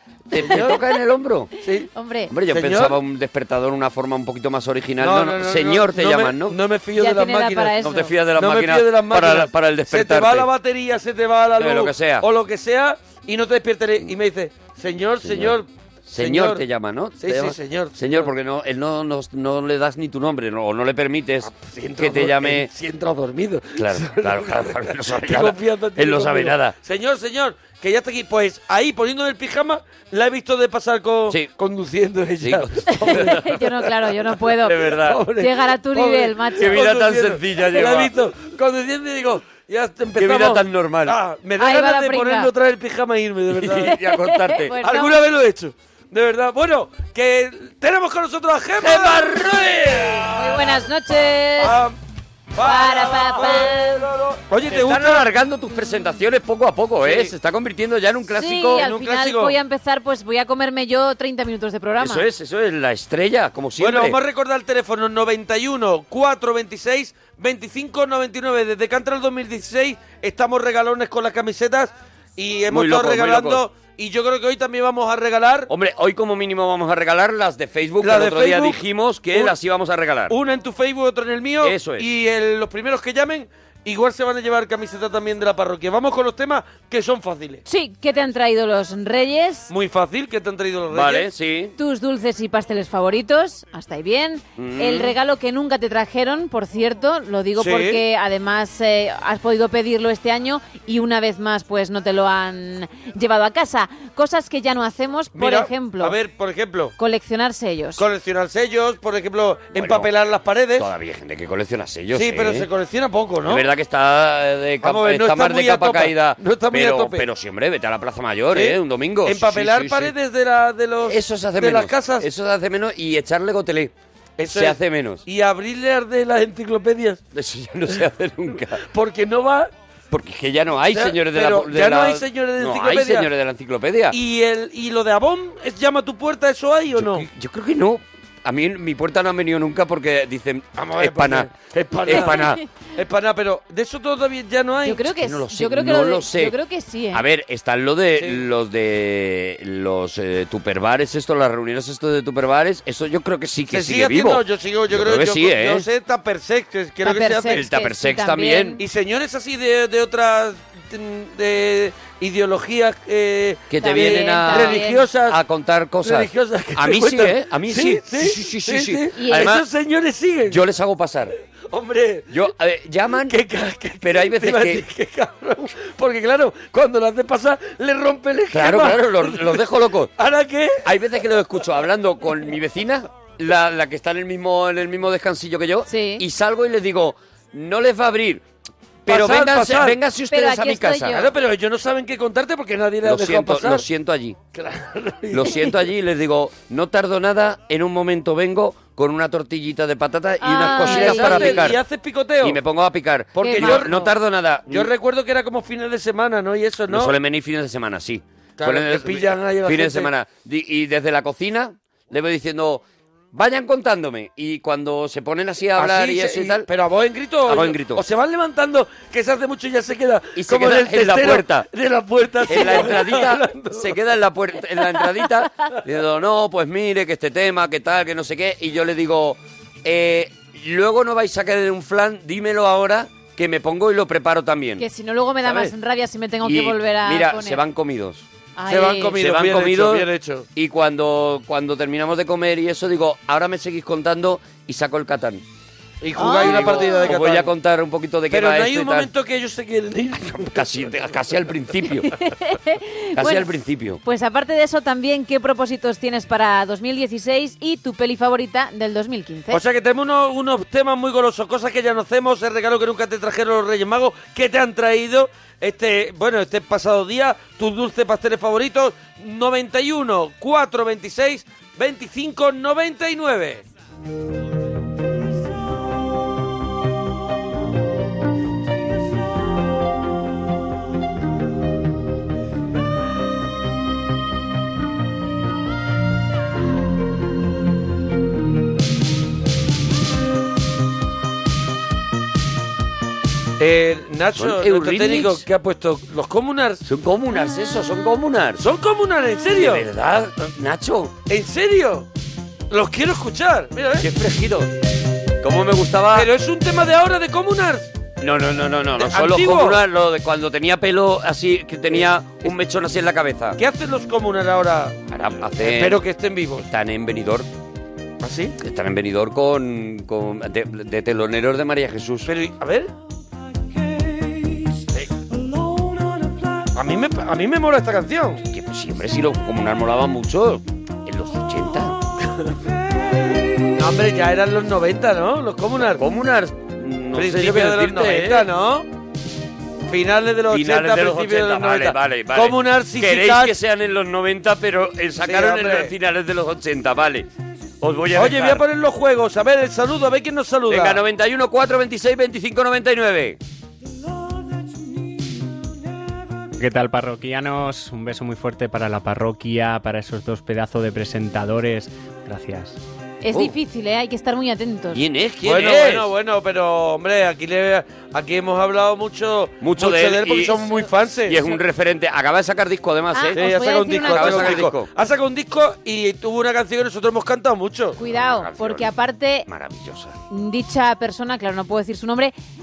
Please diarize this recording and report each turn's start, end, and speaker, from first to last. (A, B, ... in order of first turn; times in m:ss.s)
0:00.3-0:01.5 A
0:00.4-0:00.8 B
0:01.6-0:01.9 B
0:01.9-0:02.3 C
0:02.3-0:06.6 A
0:02.5-0:03.0 B
0:05.0-0:16.6 B
0:07.0-0:08.1 C
0:07.8-0:10.5 A
0:11.6-0:12.2 A
0:15.2-0:22.7 A
0:17.2-0:18.3 B
0:21.4-0:33.7 B
0:23.8-0:26.7 A
0:32.4-0:33.5 A
0:33.0-0:36.8 C
0:34.6-0:35.2 A
0:35.0-0:44.0 B
0:36.5-0:38.1 A
0:40.2-0:41.2 A
0:41.6-0:42.5 C
0:43.5-0:44.7 A
0:44.1-0:45.2 C
0:44.8-0:50.4 B
0:48.8-0:50.6 A
0:50.3-0:51.8 C
0:51.6-0:52.0 B
0:52.5-0:55.3 B
0:52.6-0:54.0 C
0:54.7-0:58.9 A
0:57.0-0:57.3 B
0:58.3-1:02.2 C
0:58.8-0:59.6 B
1:02.0-1:04.2 A
1:03.8-1:15.7 B
1:12.7-1:13.6 A
1:15.7-1:20.3 A
1:18.0-1:18.8 B
1:20.3-1:27.6 B
1:21.6-1:22.1 A
1:27.6-1:29.7 C
1:29.7-1:31.3 B
1:30.9-1:31.7 A
1:31.8-1:46.1 C
1:34.6-1:35.1 A
1:37.6-1:38.0 B
1:45.3-1:46.9 B
1:47.0-1:48.0 C
1:48.0-1:50.9 B
1:49.7-1:50.1 A
1:50.8-1:52.7 A
1:52.1-1:53.6 B
1:53.4-2:00.1 A
1:54.8-1:57.3 B
1:58.5-2:02.3 B
2:01.0-2:03.9 A
2:04.4-2:07.2 B
2:04.5-2:05.2 A
2:07.3-2:08.8 A
2:08.9-2:09.7 B
2:10.1-2:14.2 A
2:10.9-2:13.3 B
2:14.1-2:17.3 B
2:16.9-2:21.5 A
2:20.8-2:25.0 B
2:22.0-2:22.6 A
2:22.1-2:22.6 C
2:24.8-2:27.2 C
2:25.1-2:26.5 A
2:27.1-2:35.8 A
2:28.2-2:28.4 B
2:33.7-2:37.6 B
2:37.0-2:38.8 C
2:37.5-2:38.8 A
2:38.8-2:45.4 B
2:43.7-2:49.6 A
2:43.8-2:45.1 C
2:46.0-2:50.6 B
2:49.2-2:49.5 C
2:50.5-2:51.3 A
2:51.7-2:52.3 B
2:52.3-2:53.4 A
2:53.2-2:59.6 B
2:54.0-2:54.8 A
2:58.5-3:00.1 A
3:00.2-3:00.8 B
3:00.8-3:08.4 A
3:05.9-3:06.2 C
3:09.0-3:11.2 A
3:09.1-3:10.0 B
3:10.3-3:11.2 C
3:11.1-3:13.8 B
3:13.0-3:14.4 A
3:14.5-3:15.7 B
3:15.3-3:21.8 A
3:20.4-3:21.6 C
3:20.6-3:22.6 B
3:22.4-3:24.9 A
3:23.4-3:24.1 B
3:23.4-3:23.9 C
3:24.7-3:27.2 B
3:26.9-3:36.7 A
3:28.6-3:30.1 B
3:35.8-3:44.0 B
3:37.5-3:38.0 A
3:40.4-3:41.7 A
3:42.4-3:54.8 A
3:54.8-3:57.6 C
3:55.4-3:55.7 A
3:56.4-3:58.3 A
3:58.6-3:59.1 C
3:58.7-4:00.4 B
3:59.1-4:05.4 A
4:06.0-4:07.5 B
4:06.2-4:07.1 C
4:06.4-4:09.1 A
4:08.3-4:10.7 B
4:10.2-4:12.1 A
4:12.1-4:19.6 C
4:13.2-4:14.0 A
4:19.5-4:33.6 B
4:53.6-4:56.8 B
4:54.3-4:55.4 A
4:56.8-4:58.6 A
4:58.6-4:59.9 B
4:59.6-5:01.1 A
5:01.3-5:02.1 B
5:02.7-5:04.1 B
5:04.0-5:04.7 A
5:05.4-5:06.3 A
5:06.1-5:07.9 B
5:08.2-5:13.6 A
5:09.0-5:09.8 B
5:11.9-5:12.5 B
5:13.6-5:15.0 B
5:15.1-5:16.0 A
5:15.6-5:16.7 B
5:16.6-5:17.5 A
5:18.2-5:18.6 B
5:18.6-5:22.3 A
5:22.3-5:22.9 B
5:26.7-5:28.4 B
5:28.4-5:32.0 A
5:33.7-5:36.0 B
5:35.9-5:38.5 A
5:37.1-5:38.8 B
5:39.9-5:43.5 B
5:40.5-5:47.3 A
5:45.2-5:45.9 B
5:47.8-5:48.6 A
5:48.1-5:51.0 B
5:50.7-5:53.4 A
5:56.6-6:02.8 D
6:03.2-6:05.0 C
6:04.9-6:06.1 A
6:05.4-6:11.4 B
6:09.6-6:14.9 A
6:13.1-6:14.6 C
6:13.3-6:18.0 B
6:18.0-6:19.5 C
6:18.0-6:18.9 A
6:19.5-6:20.2 A
6:20.3-6:22.3 C